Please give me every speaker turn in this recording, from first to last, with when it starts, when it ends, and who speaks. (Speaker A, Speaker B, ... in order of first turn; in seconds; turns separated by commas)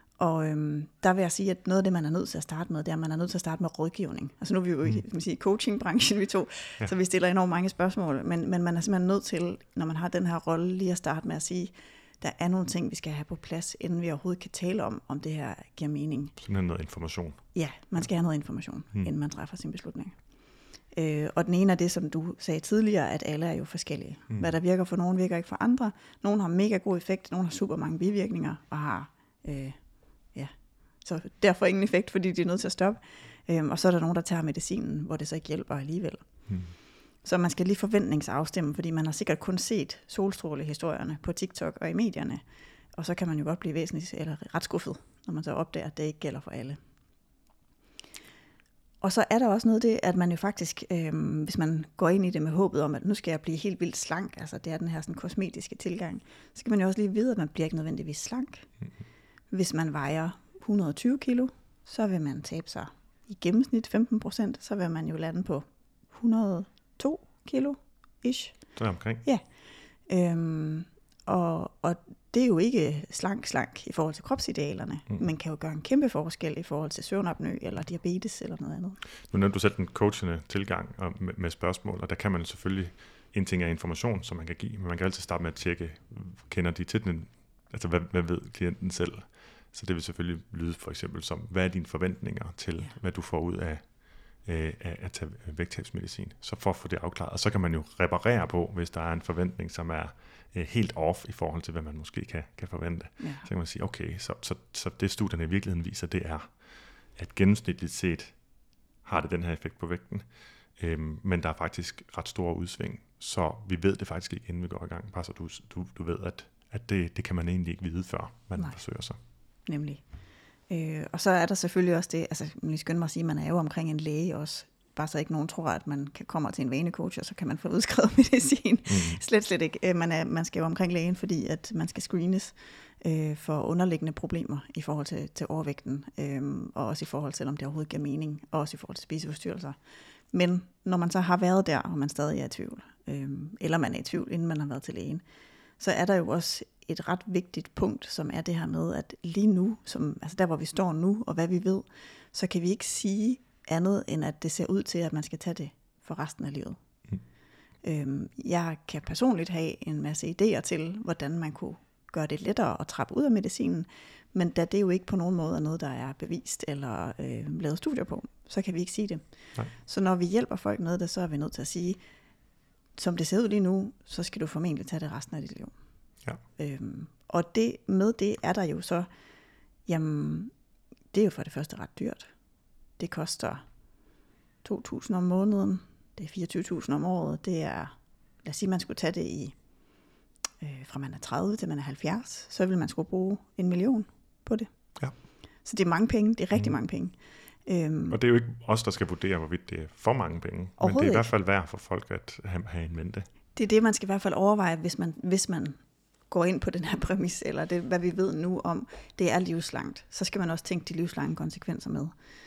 Speaker A: 0.2-16.4, Speaker B: 16.4-17.4, Speaker A: 17.5-20.2, Speaker A: 20.9-29.8, Speaker A: 30.3-36.3, Speaker B: 36.5-36.7, Speaker A: 37.2-42.4, Speaker A: 42.9-46.8, Speaker A: 49.0-58.7, Speaker A: 59.5-68.6, Speaker B: 68.8-69.2, Speaker A: 70.1-79.0, Speaker B: 79.3-93.8, Speaker B: 94.4-106.5, Speaker A: 103.2-103.5, Speaker B: 107.2-108.4, Speaker B: 109.0-110.3, Speaker B: 110.8-119.2, Speaker A: 119.7-120.1, Speaker A: 120.7-139.8, Speaker B: 128.9-129.2, Speaker A: 140.3-145.2, Speaker A: 145.8-156.8, Speaker A: 157.8-172.0, Speaker A: 172.9-175.8, Speaker A: 176.6-179.1, Speaker A: 179.9-180.5, Speaker A: 181.1-182.3, Speaker A: 183.0-183.6, Speaker A: 184.6-189.6, Speaker A: 190.6-194.7, Speaker A: 195.6-198.2, Speaker B: 198.1-203.3, Speaker A: 200.8-201.3, Speaker A: 203.6-205.8, Speaker A: 206.3-212.1